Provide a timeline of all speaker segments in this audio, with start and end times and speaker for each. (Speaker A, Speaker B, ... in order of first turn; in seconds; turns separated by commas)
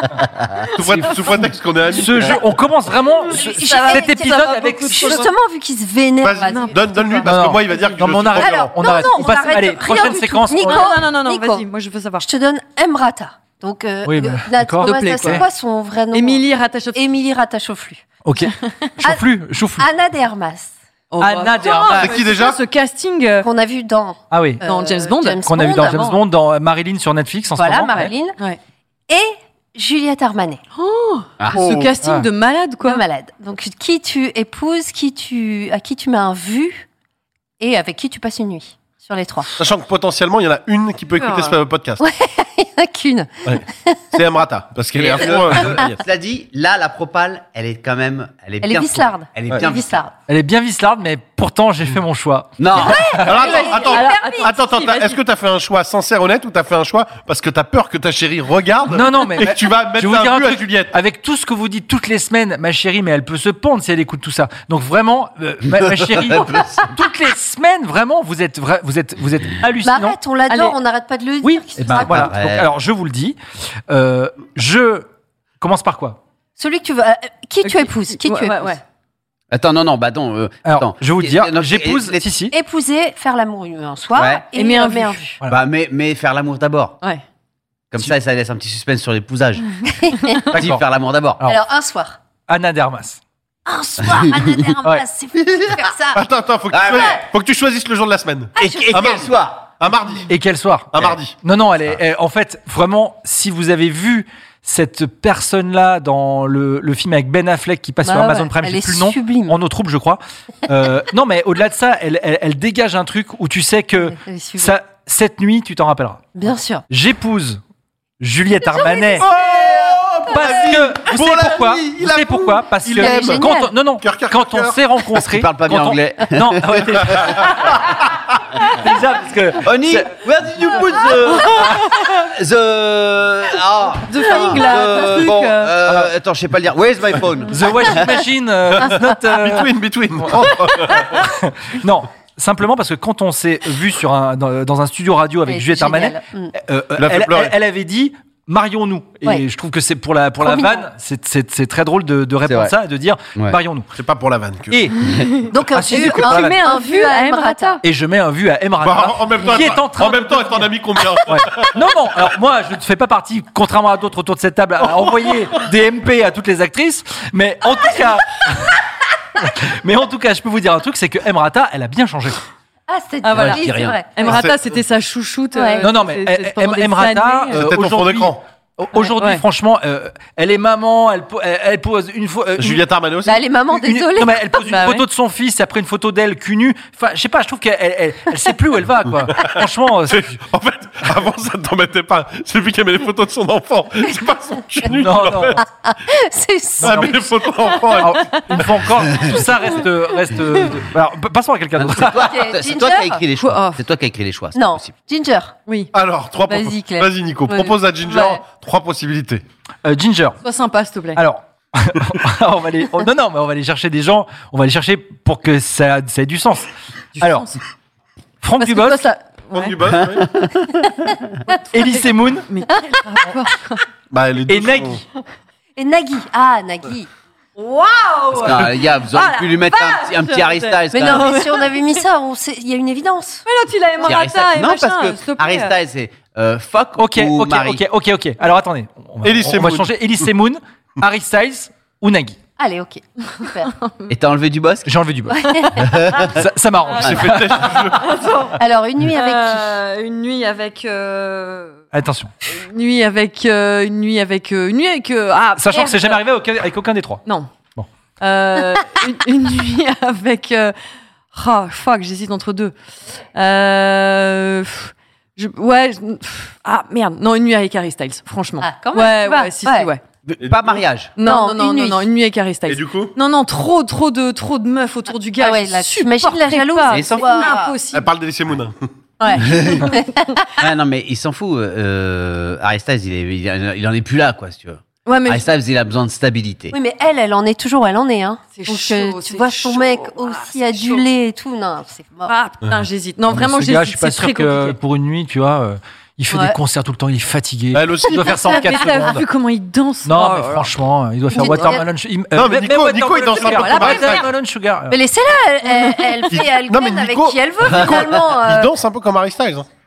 Speaker A: 0.8-2.4, Speaker B: 0.8-5.3, Speaker C: 3.3-5.3, Speaker D: 3.3-7.3, Speaker A: 6.2-8.8, Speaker C: 6.5-6.7, Speaker B: 7.2-11.0, Speaker D: 8.4-11.7, Speaker C: 10.6-12.2, Speaker D: 12.2-18.1, Speaker B: 14.0-15.4, Speaker C: 14.8-15.4, Speaker C: 16.1-17.1, Speaker B: 18.2-19.9, Speaker C: 18.6-18.9, Speaker D: 19.8-20.7, Speaker C: 21.1-23.5, Speaker B: 21.2-22.1, Speaker A: 21.8-22.6, Speaker D: 23.4-26.2, Speaker B: 24.3-24.6, Speaker C: 24.6-25.4, Speaker B: 25.4-28.1, Speaker D: 27.6-28.4, Speaker C: 27.9-28.6, Speaker D: 29.1-30.6, Speaker C: 30.8-33.0, Speaker A: 31.5-31.9, Speaker D: 32.8-36.9, Speaker D: 37.6-39.6, Speaker A: 39.6-42.0, Speaker C: 41.2-41.5, Speaker D: 42.0-44.0, Speaker A: 43.5-46.0, Speaker E: 44.9-50.0, Speaker D: 48.6-50.1, Speaker B: 50.3-53.3, Speaker E: 52.6-53.2, Speaker D: 52.7-54.7, Speaker A: 53.2-60.9, Speaker C: 53.5-55.2, Speaker B: 58.9-70.2, Speaker E: 65.7-66.9, Speaker D: 69.8-72.3, Speaker B: 71.4-73.4, Speaker E: 71.9-72.7, Speaker B: 73.9-75.1, Speaker B: 75.6-76.2, Speaker D: 76.6-78.8, Speaker C: 77.6-78.8, Speaker E: 79.5-82.3, Speaker B: 80.6-82.5, Speaker D: 82.5-85.3, Speaker E: 84.2-84.5, Speaker C: 84.5-85.3, Speaker E: 85.5-87.0, Speaker E: 87.9-89.8, Speaker D: 89.9-90.3, Speaker B: 90.5-90.8, Speaker E: 90.5-91.4, Speaker D: 91.4-92.2, Speaker B: 92.5-93.2, Speaker D: 93.7-96.2, Speaker E: 94.0-94.7, Speaker A: 96.1-100.3, Speaker E: 96.7-97.2, Speaker D: 96.9-97.2, Speaker D: 98.6-99.2, Speaker E: 98.6-99.7, Speaker B: 100.3-116.3, Speaker A: 100.9-101.3, Speaker D: 108.0-109.6, Speaker D: 114.0-114.8, Speaker D: 116.3-116.8, Speaker B: 116.9-117.6, Speaker B: 118.2-130.1, Speaker D: 118.6-119.3, Speaker A: 119.2-123.4, Speaker D: 122.9-123.7, Speaker A: 124.0-124.8, Speaker E: 125.3-127.3, Speaker A: 127.1-127.8, Speaker E: 129.6-138.1, Speaker C: 131.3-132.2, Speaker C: 134.1-135.8, Speaker B: 137.5-139.7, Speaker A: 138.8-141.2, Speaker B: 140.2-153.9, Speaker D: 145.4-146.5, Speaker A: 147.0-147.5, Speaker D: 150.4-150.9, Speaker E: 152.4-152.7, Speaker A: 154.0-154.8, Speaker B: 154.7-155.1, Speaker C: 155.1-157.8, Speaker D: 155.5-157.8, Speaker B: 155.7-156.6, Speaker B: 157.8-160.7, Speaker A: 158.8-161.7, Speaker B: 161.3-168.8, Speaker B: 169.4-172.4, Speaker D: 172.9-174.4, Speaker C: 173.2-177.6, Speaker E: 173.3-174.0, Speaker A: 174.2-174.7, Speaker D: 175.5-175.8, Speaker B: 175.8-182.8, Speaker A: 177.5-178.4, Speaker C: 178.9-179.4, Speaker A: 182.6-183.4, Speaker D: 183.2-184.8, Speaker B: 183.7-190.4, Speaker C: 184.7-185.0, Speaker A: 189.3-195.6, Speaker B: 194.9-195.6, Speaker D: 195.6-197.8, Speaker B: 196.8-197.2, Speaker A: 196.8-198.8, Speaker B: 198.0-202.3, Speaker C: 198.1-198.5, Speaker E: 201.8-204.9, Speaker D: 202.0-203.2, Speaker C: 203.4-203.8, Speaker D: 204.5-205.5, Speaker A: 205.9-209.4, Speaker D: 206.5-208.4, Speaker B: 209.8-210.4, Speaker C: 210.4-211.2, Speaker B: 211.2-217.5, Speaker C: 217.2-217.6, Speaker B: 218.4-219.0, Speaker C: 218.6-219.8, Speaker A: 219.5-220.3, Speaker E: 220.0-221.3, Speaker C: 221.5-223.8, Speaker B: 221.7-222.4, Speaker A: 224.1-225.0, Speaker B: 224.5-225.0, Speaker D: 225.8-227.1, Speaker C: 227.6-231.9, Speaker E: 228.3-231.3, Speaker D: 230.9-233.4, Speaker C: 233.4-235.7, Speaker E: 234.0-237.8, Speaker B: 237.0-242.4, Speaker A: 239.2-239.9, Speaker D: 242.6-243.7, Speaker C: 243.4-244.1, Speaker E: 244.1-244.9, Speaker B: 244.8-247.8, Speaker D: 245.3-245.7, Speaker E: 245.8-246.4, Speaker A: 247.0-248.2, Speaker C: 247.9-251.8, Speaker D: 248.6-249.7, Speaker B: 251.9-252.3, Speaker C: 252.4-256.2, Speaker B: 255.6-257.2, Speaker C: 258.2-260.7, Speaker C: 261.3-262.7, Speaker C: 263.3-270.0, Speaker D: 268.6-269.9, Speaker E: 270.2-271.1, Speaker A: 270.4-270.8, Speaker C: 271.1-278.0, Speaker D: 271.2-272.0, Speaker A: 272.7-273.1, Speaker D: 275.4-277.7, Speaker E: 276.9-277.5, Speaker A: 277.9-278.8, Speaker D: 279.2-280.4, Speaker E: 279.4-279.8, Speaker E: 280.6-286.8, Speaker C: 285.0-285.5, Speaker D: 286.7-292.3, Speaker C: 288.6-291.0, Speaker C: 292.2-294.8, Speaker B: 293.3-299.2, Speaker D: 296.3-296.6, Speaker A: 297.7-298.5, Speaker C: 298.4-300.7, Speaker D: 298.6-298.9, Speaker B: 300.0-305.0, Speaker D: 301.3-301.8, Speaker C: 301.4-301.7, Speaker A: 302.3-304.3, Speaker C: 303.4-304.2, Speaker D: 304.9-308.7, Speaker C: 305.7-306.3, Speaker A: 306.3-309.7